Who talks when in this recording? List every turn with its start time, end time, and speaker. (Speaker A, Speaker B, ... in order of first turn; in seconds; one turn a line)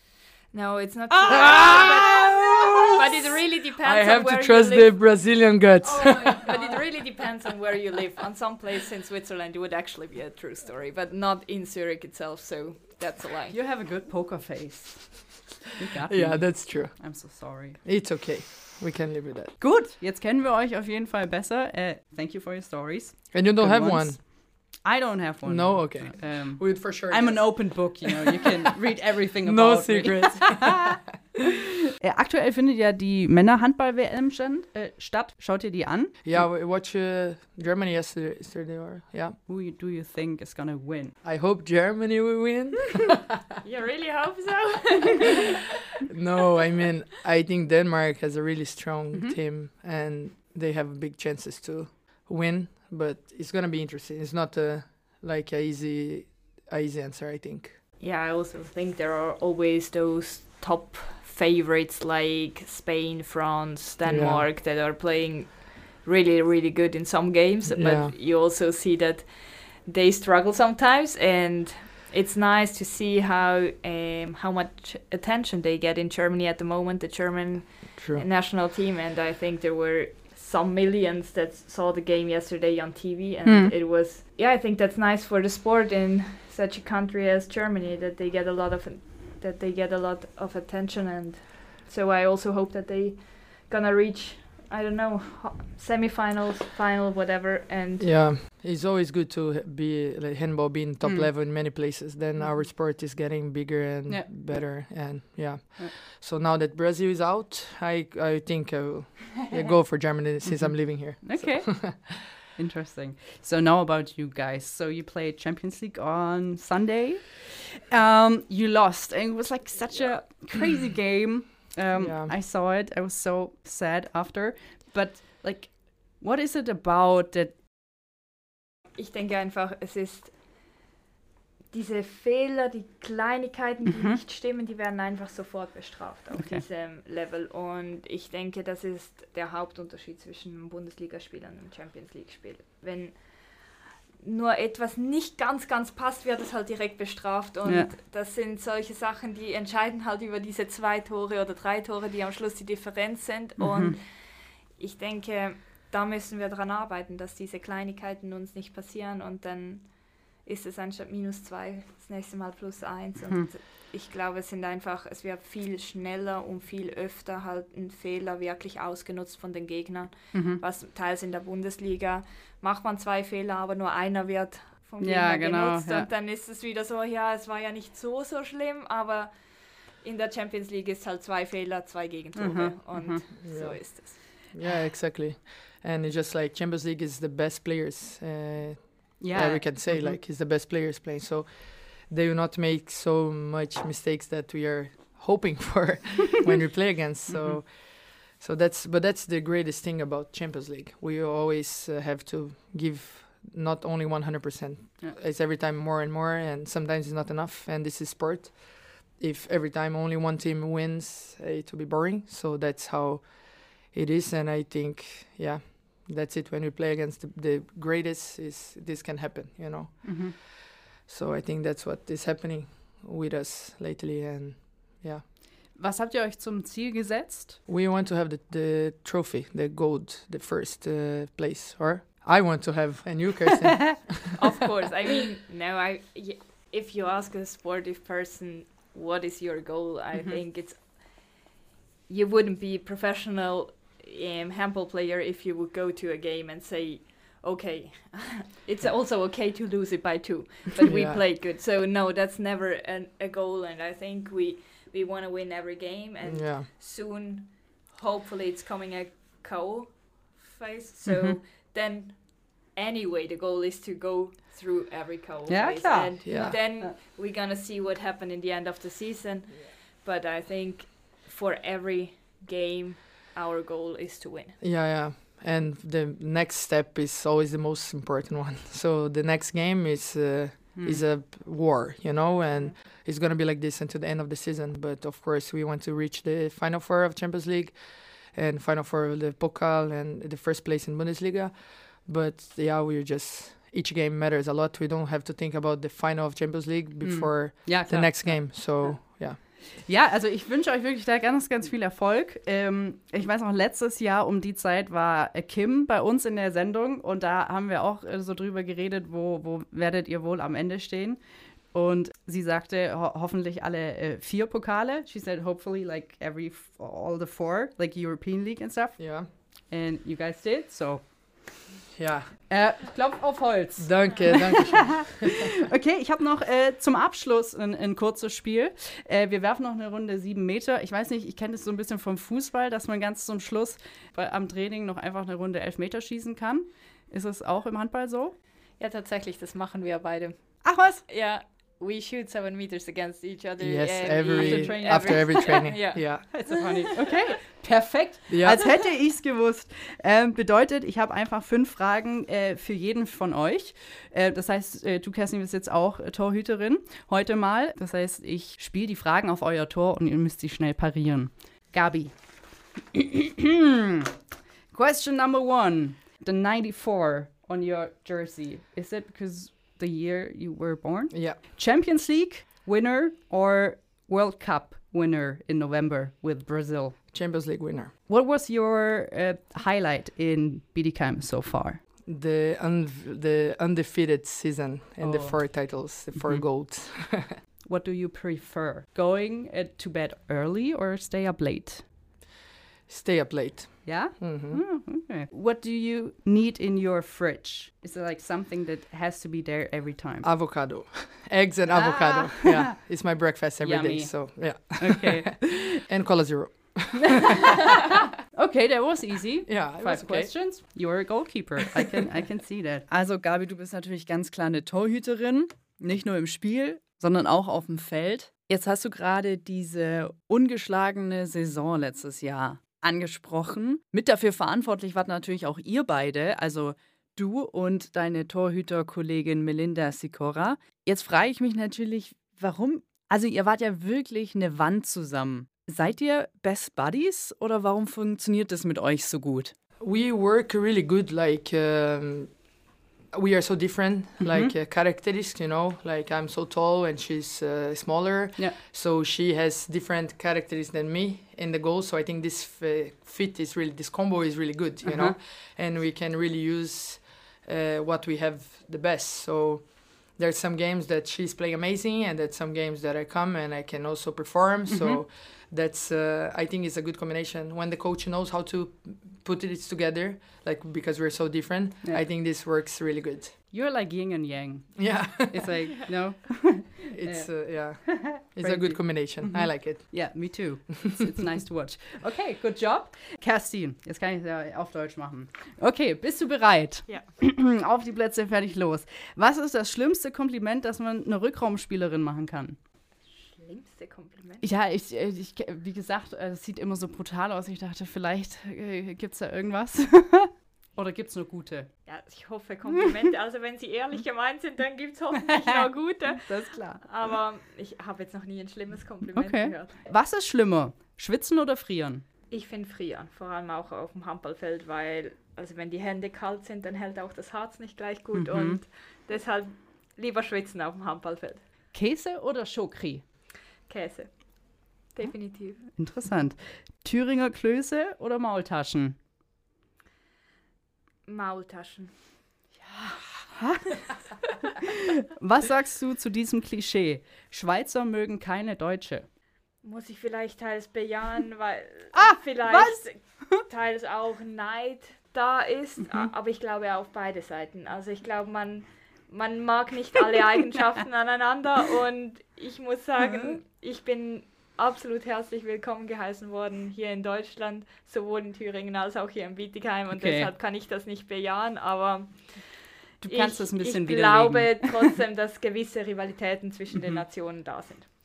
Speaker A: 0.5-5.1
Speaker B: 1.1-2.9
Speaker C: 1.3-3.3
Speaker C: 3.8-6.5
Speaker A: 5.9-13.6
Speaker B: 13.5-17.8
Speaker C: 16.1-19.6
Speaker B: 19.6-31.1
Speaker C: 23.3-24.2
Speaker C: 25.4-28.2
Speaker C: 29.4-30.9
Speaker B: 32.0-36.4
Speaker C: 36.2-39.4
Speaker B: 39.5-41.2
Speaker C: 41.2-43.4
Speaker A: 43.6-45.6
Speaker C: 46.1-57.8
Speaker B: 49.1-49.4
Speaker A: 58.0-98.1
Speaker C: 64.1-64.5
Speaker C: 67.7-68.1
Speaker C: 78.0-78.2
Speaker B: 83.5-83.7
Speaker C: 98.0-112.3
Speaker B: 101.0-101.3
Speaker B: 104.1-105.1
Speaker B: 110.4-127.6
Speaker A: 119.9-120.2
Speaker C: 121.9-122.3
Speaker A: 128.9-130.8
Speaker A: 131.7-184.3
Speaker B: 133.9-134.2
Speaker B: 136.3-136.6
Speaker B: 147.7-147.9
Speaker B: 153.6-154.0
Speaker B: 170.3-170.6
Speaker B: 175.0-176.1
Speaker B: 182.4-183.2
Speaker C: 183.4-225.2
Speaker B: 189.2-190.2
Speaker B: 197.3-197.6
Speaker B: 220.0-220.3
Speaker B: 225.7-227.6
Speaker C: 227.7-234.3
Speaker A: 234.3-241.4
Speaker A: 242.1-274.6
Speaker C: 250.8-251.2
Speaker C: 256.2-256.7
Speaker B: 261.1-261.4
Speaker B: 265.5-266.9
Speaker C: 266.2-266.6
Speaker C: 274.6-299.4
Speaker B: 280.8-281.0
Speaker B: 297.0-321.7
Speaker C: 319.0-319.3
Speaker C: 322.0-322.4
Speaker B: 322.5-338.4
Speaker C: 323.8-325.5
Speaker A: 338.8-347.1
Speaker B: 340.6-341.0
Speaker C: 343.6-346.5
Speaker B: 344.4-364.1
Speaker C: 348.3-348.6
Speaker B: 364.7-377.0
Speaker C: 371.1-371.4
Speaker C: 377.1-377.9
Speaker B: 378.1-381.8
Speaker C: 382.1-387.4
Speaker B: 385.0-386.5
Speaker B: 387.6-391.9
Speaker C: 392.9-394.6
Speaker B: 393.9-400.3
Speaker C: 400.2-407.6
Speaker B: 401.7-402.7
Speaker B: 403.6-405.8
Speaker B: 407.1-439.5
Speaker C: 409.5-410.3
Speaker C: 439.8-442.4
Speaker C: 443.1-473.4
Speaker B: 444.2-444.5
Speaker B: 454.8-455.2
Speaker B: 464.7-465.0
Speaker B: 473.5-492.6
Speaker C: 474.8-475.6
Speaker C: 476.9-480.2
Speaker A: 493.1-494.5
Speaker B: 494.4-501.7
Speaker A: 501.9-509.8
Speaker B: 506.1-507.0
Speaker B: 509.1-512.1
Speaker A: 512.3-521.4
Speaker B: 518.1-518.6
Speaker B: 521.7-523.0
Speaker A: 523.7-525.6
Speaker B: 525.6-529.0
Speaker A: 531.1-531.9
Speaker B: 532.6-533.8
Speaker B: 534.5-539.1
Speaker A: 539.6-567.9
Speaker B: 541.9-543.4
Speaker B: 553.0-553.4
Speaker B: 559.9-560.3
Speaker B: 563.0-564.9
Speaker B: 566.8-567.0